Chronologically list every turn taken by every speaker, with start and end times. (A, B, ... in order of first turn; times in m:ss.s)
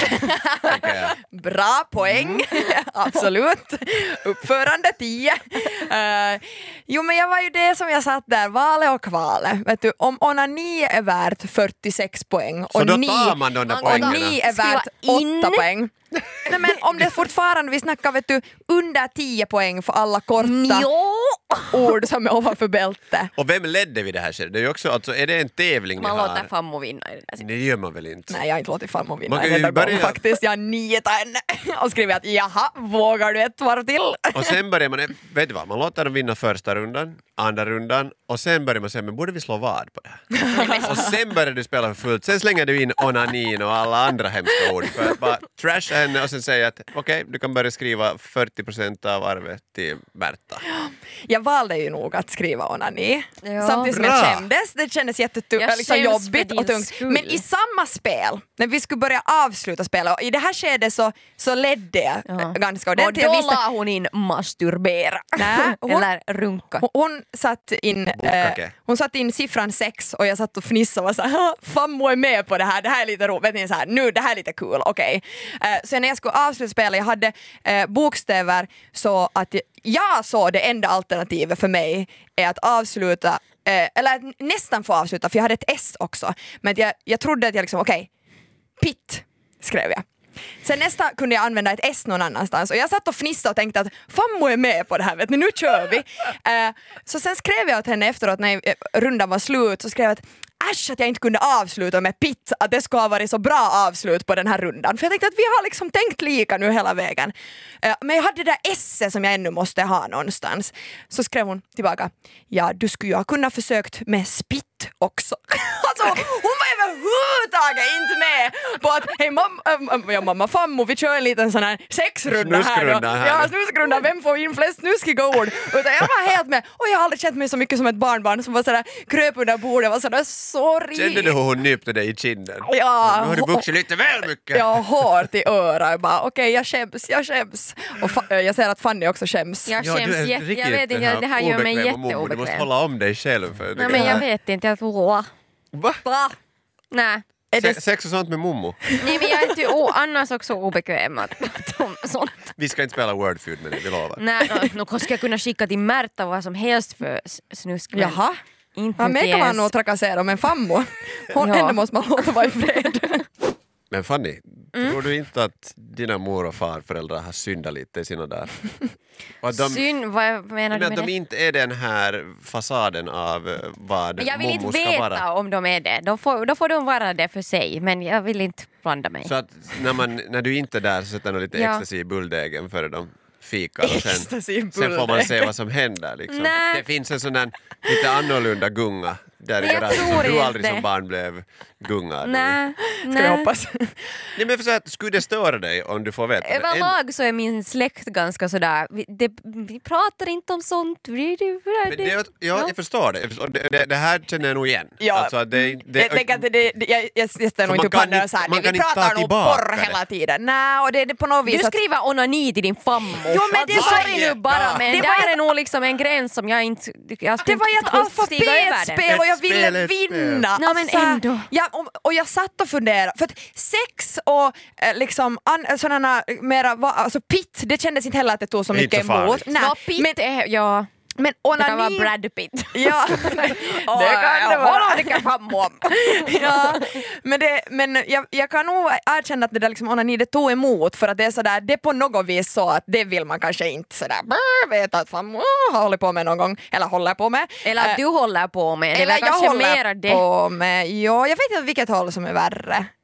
0:00.2-0:00.9 A
0:00.6-0:01.2 B
0:01.1-0:20.9 C
0:02.0-0:02.4 B
0:12.7-0:14.4 B
0:13.7-0:15.6 A
0:20.4-0:22.0 A
0:21.7-0:23.3 C
0:23.4-0:26.5 B
0:26.0-0:27.4 A
0:27.4-0:28.4 B
0:28.3-0:34.6 C
0:29.3-0:30.2 B
0:34.3-0:50.6 B
0:40.3-0:41.0 C
0:40.5-0:40.8 A
0:50.6-1:03.6 C
0:53.4-0:53.9 A
0:53.8-0:54.5 B
0:55.6-0:57.4 A
1:02.3-1:06.8 A
1:05.4-1:06.1 C
1:06.8-1:28.1 C
1:08.2-1:08.7 B
1:28.8-1:30.0 C
1:30.6-2:11.4 C
2:02.3-2:03.5 B
2:10.9-2:15.0 B
2:12.6-2:13.7 C
2:14.5-2:19.7 C
2:19.6-2:22.7 A
2:19.8-2:24.2 B
2:23.8-2:25.3 A
2:23.9-2:24.2 C
2:25.7-2:26.0 B
2:26.0-2:26.3 A
2:26.9-2:27.2 A
2:27.5-2:27.8 C
2:27.6-2:28.9 B
2:28.8-2:29.4 C
2:29.0-2:32.5 A
2:32.6-2:34.2 B
2:34.2-2:38.2 A
2:37.9-2:38.4 C
2:38.7-2:39.7 A
2:39.0-2:43.3 C
2:41.3-2:41.8 A
2:43.9-2:48.6 B
2:49.4-2:49.8 B
2:49.5-2:51.1 A
2:50.7-2:55.2 B
2:54.2-2:59.3 A
2:59.2-3:12.6 B
3:01.5-3:01.8 A
3:03.8-3:05.5 C
3:06.3-3:06.8 A
3:09.6-3:10.8 A
3:12.2-3:13.5 A
3:12.8-3:14.3 C
3:14.4-3:16.9 B
3:16.4-3:22.7 A
3:21.8-3:26.4 B
3:25.0-3:31.8 C
3:27.6-3:30.0 B
3:31.4-3:39.1 A
3:33.2-3:34.3 C
3:33.3-3:35.1 B
3:34.8-3:35.4 C
3:37.4-3:50.2 C
3:39.1-3:40.5 B
3:40.6-3:41.5 A
3:48.7-3:49.5 B
3:49.5-3:50.9 A
3:51.2-3:52.1 C
3:51.6-3:57.0 A
3:52.7-3:55.2 C
3:55.8-4:08.0 C
4:07.6-4:10.2 A
4:08.9-4:12.9 C